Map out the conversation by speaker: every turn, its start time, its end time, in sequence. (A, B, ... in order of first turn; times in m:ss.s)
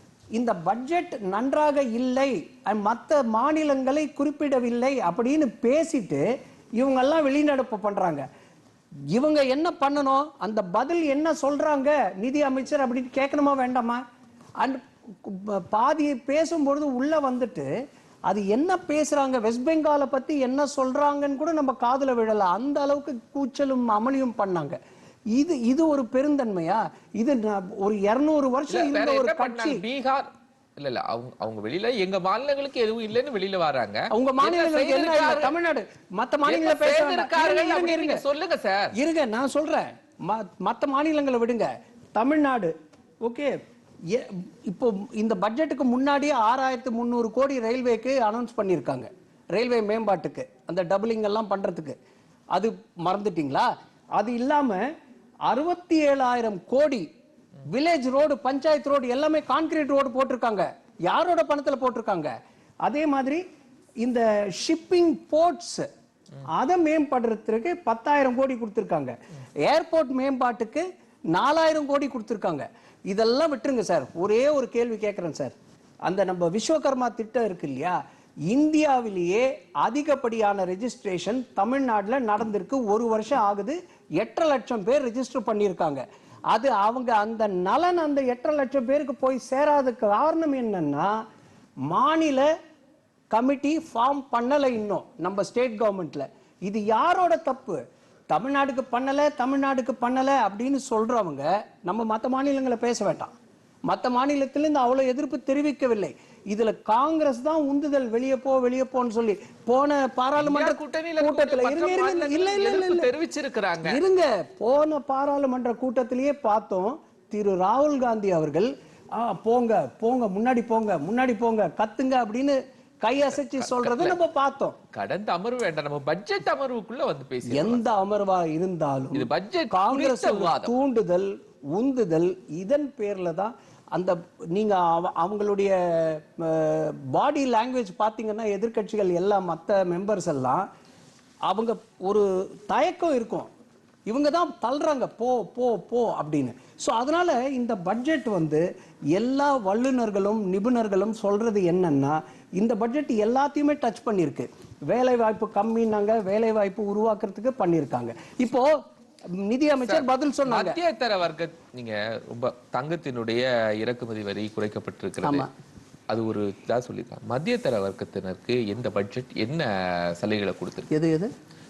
0:00.3-0:06.2 A
0:06.8-0:08.2 A
0:09.1-0:14.0 A
0:14.6-0:17.7 A
0:18.3-0:24.8 A
0:25.3-0:29.8 A
0:28.7-0:35.5 B
0:34.1-0:38.2 A
0:36.4-0:38.9 B
0:39.0-0:42.7 A
0:43.2-0:52.0 A
0:52.5-0:54.8 A
0:55.5-0:57.1 A
0:57.7-1:02.3 A
1:02.8-1:03.4 A
1:04.0-1:05.9 A
1:06.5-1:09.1 A
1:09.6-1:15.5 A
1:16.0-1:31.2 A
1:31.9-1:32.5 A
1:33.3-1:43.3 A
1:43.9-1:53.1 A
1:50.4-1:54.0 B
1:53.8-2:04.8 A
2:03.3-2:04.2 B
2:04.9-2:07.8 B
2:07.5-2:20.7 A
2:09.1-2:10.7 B
2:21.5-2:23.5 A
2:24.1-2:40.8 A
2:39.8-2:45.5 B
2:45.2-2:45.5 A
2:46.1-2:50.9 B
2:50.9-2:51.3 A